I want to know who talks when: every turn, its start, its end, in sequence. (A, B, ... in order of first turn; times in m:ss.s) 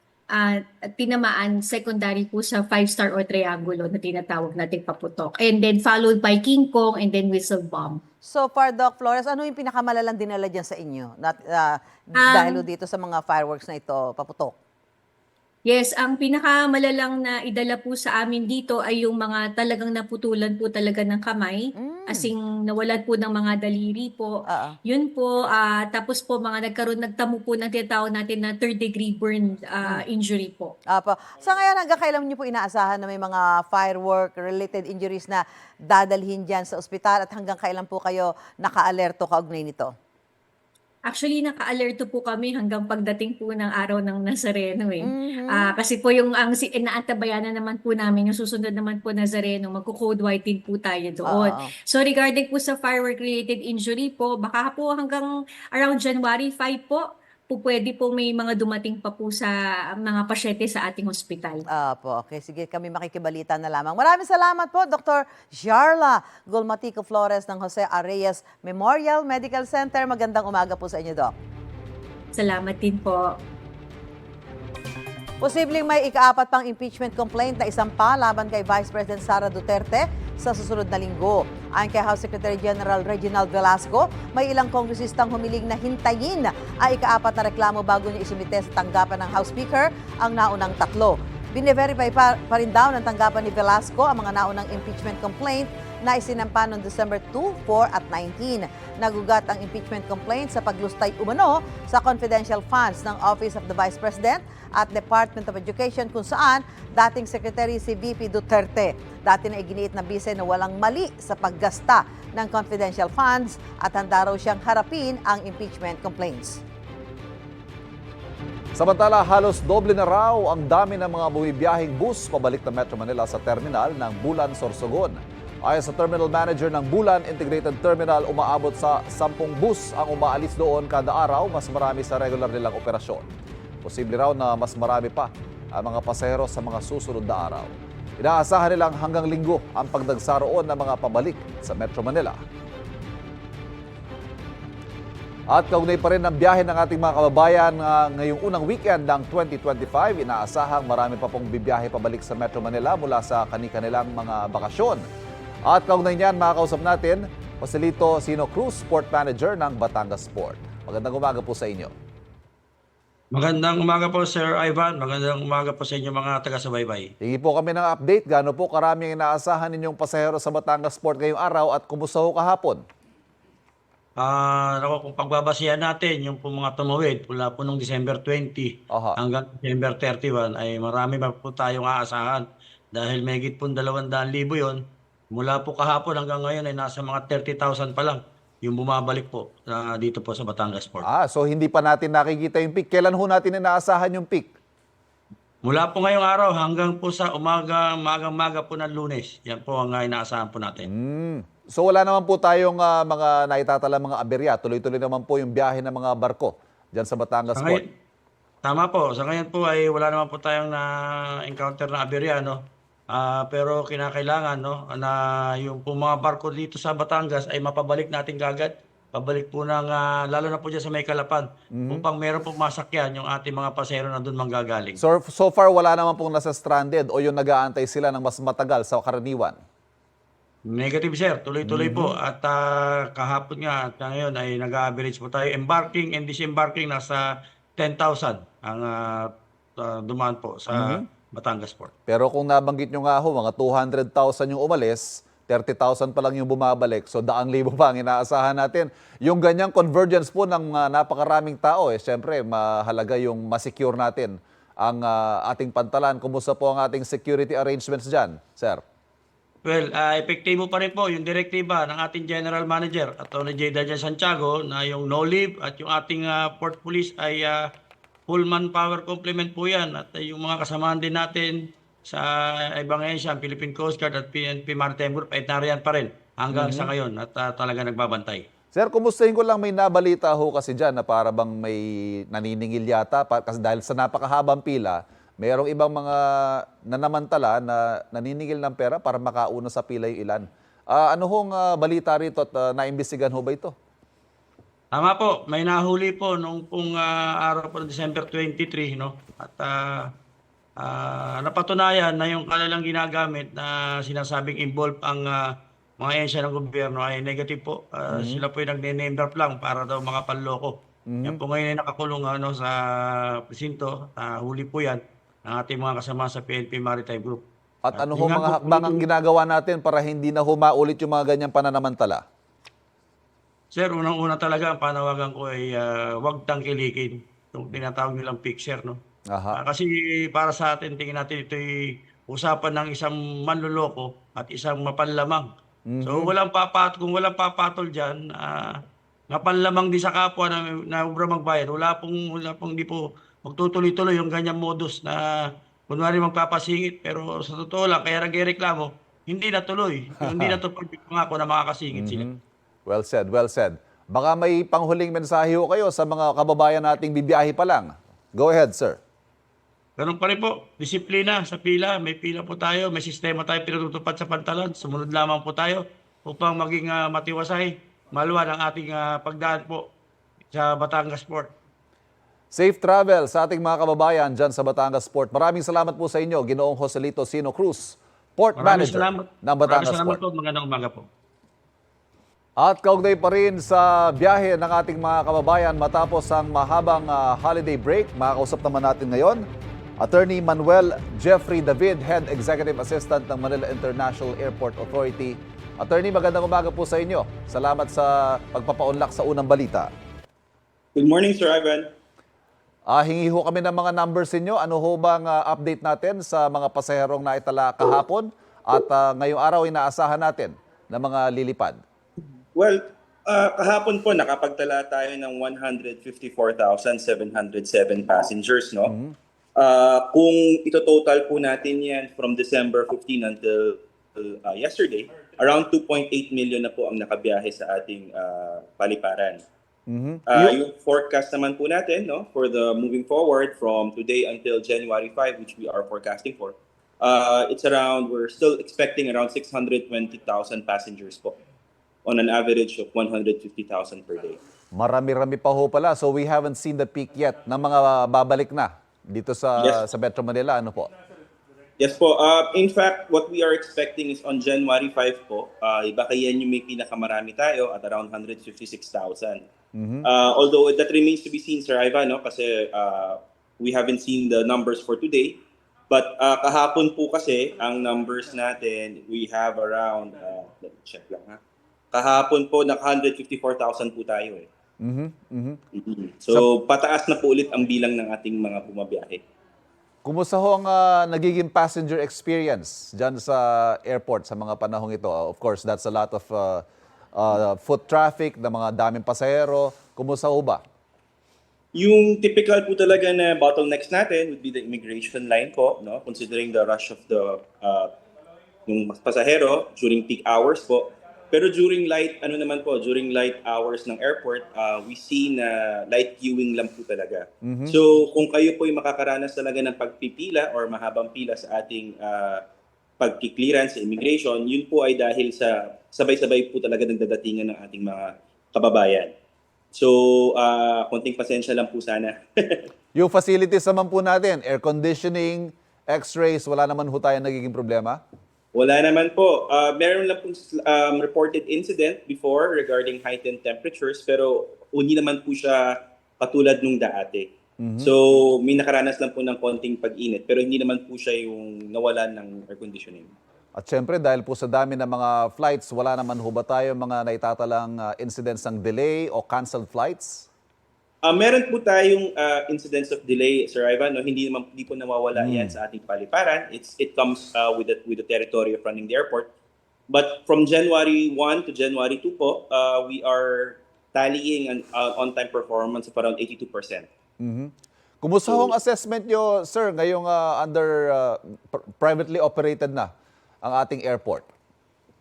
0:00.3-0:08.0 A
0:08.2-0:14.5 B
0:12.2-0:12.6 A
0:15.7-0:24.3 A
0:21.8-0:22.3 B
0:24.5-0:24.8 B
0:24.8-0:30.7 A
0:30.9-0:39.9 B
0:41.1-1:01.6 A
0:45.0-0:45.7 B
0:51.2-0:51.7 B
1:01.7-1:11.3 B
1:12.3-1:13.4 A
1:15.4-1:56.6 B
1:58.8-2:13.3 C
2:13.8-2:22.4 C
2:25.5-2:35.0 C
2:35.6-2:41.9 C
2:43.3-2:47.1 D
2:47.2-2:52.8 C
2:54.2-3:11.0 D
2:58.9-2:59.2 C
3:11.0-3:14.5 C
3:15.6-3:20.9 D
3:20.8-3:27.8 C
3:27.6-3:27.9 D
3:28.6-3:45.0 D
3:41.7-3:42.0 C
3:45.0-3:49.6 C
3:50.7-4:01.9 D
3:51.6-3:52.2 C
4:00.7-4:01.0 C
4:02.1-4:18.8 C
4:19.6-4:27.7 D
4:28.3-4:38.4 D
4:36.5-4:36.9 C
4:38.7-4:53.7 C
4:54.9-5:00.1 D
5:00.8-5:19.0 D
5:08.1-5:08.4 C
5:11.1-5:11.4 C
5:17.8-5:22.2 C
5:23.7-5:29.0 D
5:29.3-5:29.6 C
5:29.5-5:35.5 D
5:35.9-5:36.3 C
5:36.0-5:38.8 D
5:39.3-5:52.2 D
5:50.3-5:50.6 C
5:51.9-5:59.0 C
6:00.0-6:09.9 D
6:10.5-6:11.5 D
6:12.5-6:20.2 C
6:18.6-6:21.1 D
6:22.6-6:29.4 C
6:30.0-6:39.9 C
6:41.0-6:41.9 E
6:42.9-6:51.8 C
6:52.5-6:58.9 E
6:58.8-6:59.1 C
6:59.6-7:09.4 E
7:09.9-7:10.6 C
7:10.3-7:21.4 E
7:22.0-7:24.4 E
7:24.7-7:30.9 C
7:31.8-7:39.4 E
7:39.7-7:40.1 C
7:40.0-7:51.4 E
7:51.9-7:54.5 E
7:54.8-7:55.6 C
7:55.7-7:59.2 E
8:00.0-8:10.6 C
8:11.7-8:17.9 E
8:18.7-8:32.4 E
8:27.4-8:27.8 C
8:33.0-8:39.1 E
8:39.7-8:42.7 E
8:42.9-8:48.0 C
8:48.5-9:03.1 E
8:57.6-8:57.9 C
9:03.6-9:10.3 C
9:11.0-9:19.3 E
9:15.1-9:15.6 C
9:19.9-9:26.9 E
9:27.2-9:32.9 C
9:33.4-9:34.3 C